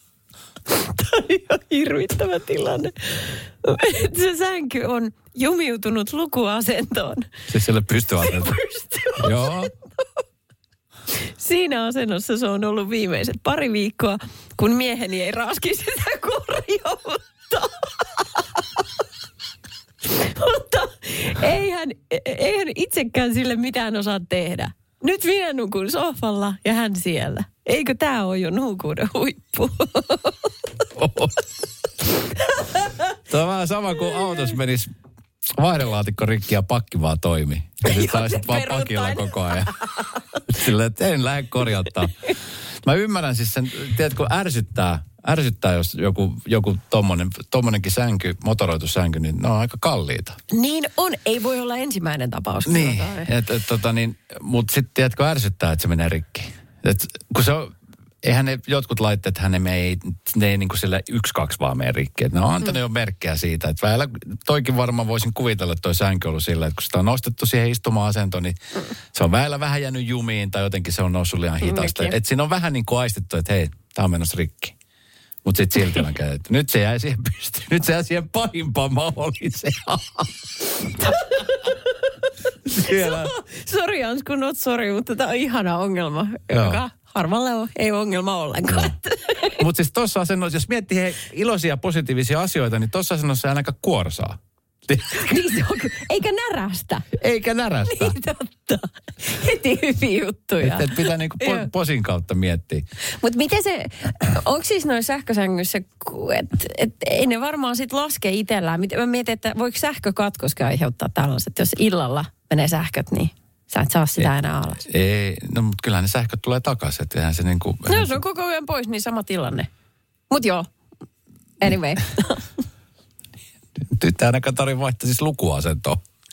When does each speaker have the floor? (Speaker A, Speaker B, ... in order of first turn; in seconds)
Speaker A: 0.7-7.3, 8.2-9.7, 11.2-18.6, 20.1-30.4, 32.5-33.0, 37.8-40.4, 50.5-53.3, 71.6-72.1, 81.0-81.8, 82.8-89.6, 95.1-97.1, 97.8-101.7, 103.2-114.8, 117.9-119.7, 120.3-120.7, 121.6-122.4
Speaker B: 7.5-8.6, 9.2-9.7, 30.9-31.4, 33.3-34.9, 35.6-39.7, 40.5-50.4, 52.6-68.6, 69.1-74.7, 75.4-81.4, 82.7-83.3, 86.5-86.8, 88.7-88.9, 89.5-95.2, 97.2-98.2, 100.6-102.8, 114.9-118.2, 123.9-126.0